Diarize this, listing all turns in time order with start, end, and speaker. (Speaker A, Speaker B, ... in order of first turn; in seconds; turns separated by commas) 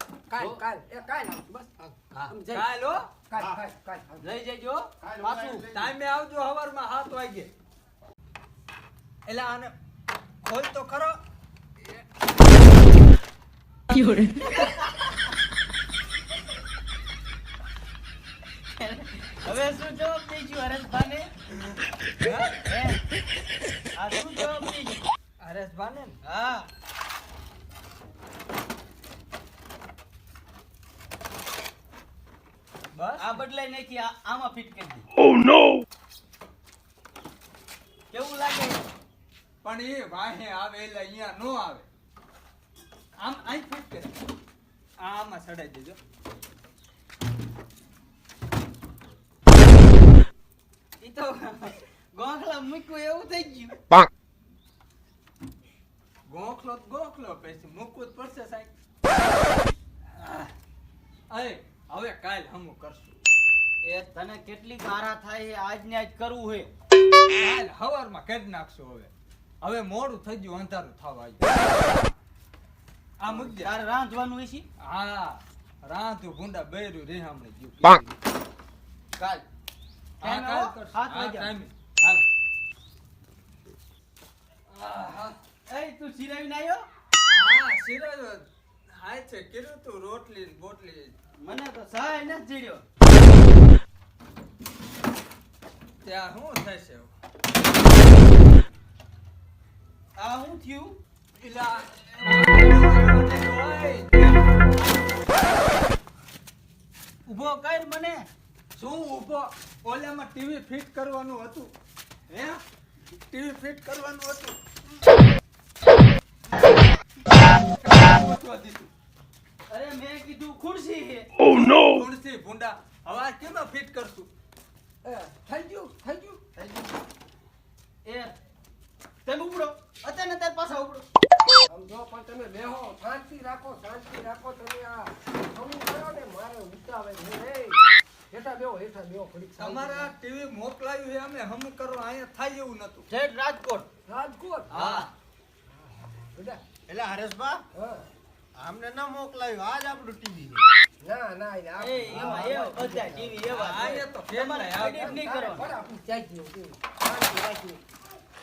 Speaker A: 0.3-2.7, Speaker B: 2.5-3.1, Speaker A: 3.3-4.2, Speaker C: 4.2-5.7, Speaker D: 5.0-5.9, Speaker B: 5.7-7.5, Speaker B: 9.2-9.7, Speaker B: 10.4-11.2, Speaker C: 14.0-14.7, Speaker C: 18.8-21.3, Speaker B: 22.2-22.6, Speaker C: 22.6-23.0, Speaker C: 23.9-25.0, Speaker B: 25.4-26.2, Speaker C: 26.2-26.7, Speaker B: 32.9-33.4, Speaker C: 33.2-35.1, Speaker C: 38.1-38.8, Speaker B: 39.6-41.9, Speaker B: 43.2-44.1, Speaker B: 45.0-46.0, Speaker C: 51.0-54.0, Speaker B: 56.3-58.7, Speaker B: 60.1-60.5, Speaker B: 61.3-63.2, Speaker C: 63.8-66.7, Speaker B: 67.3-69.1, Speaker B: 69.6-72.1, Speaker B: 73.2-73.7, Speaker C: 73.3-74.7, Speaker B: 74.8-78.1, Speaker C: 79.2-79.5, Speaker B: 80.2-81.7, Speaker C: 80.2-82.2, Speaker B: 84.7-85.4, Speaker C: 85.7-86.9, Speaker B: 87.3-91.2, Speaker C: 91.4-92.8, Speaker B: 96.0-97.1, Speaker C: 100.2-101.0, Speaker B: 101.4-104.5, Speaker C: 107.3-108.3, Speaker B: 108.8-111.7, Speaker B: 112.3-112.6, Speaker B: 113.3-114.6, Speaker B: 117.8-118.9, Speaker C: 119.7-121.3, Speaker B: 121.5-124.3, Speaker A: 125.0-126.4, Speaker D: 126.6-126.9, Speaker C: 128.0-128.3, Speaker C: 129.2-131.1, Speaker A: 131.7-140.1, Speaker B: 139.6-143.1, Speaker C: 143.1-143.9, Speaker A: 144.1-144.8, Speaker B: 144.7-145.1, Speaker C: 144.7-145.1, Speaker A: 145.9-146.6, Speaker D: 146.9-147.6, Speaker A: 147.7-148.1, Speaker D: 148.5-150.7, Speaker A: 151.0-153.2, Speaker C: 151.8-155.7, Speaker D: 152.1-152.6, Speaker B: 153.4-155.2, Speaker A: 154.9-157.8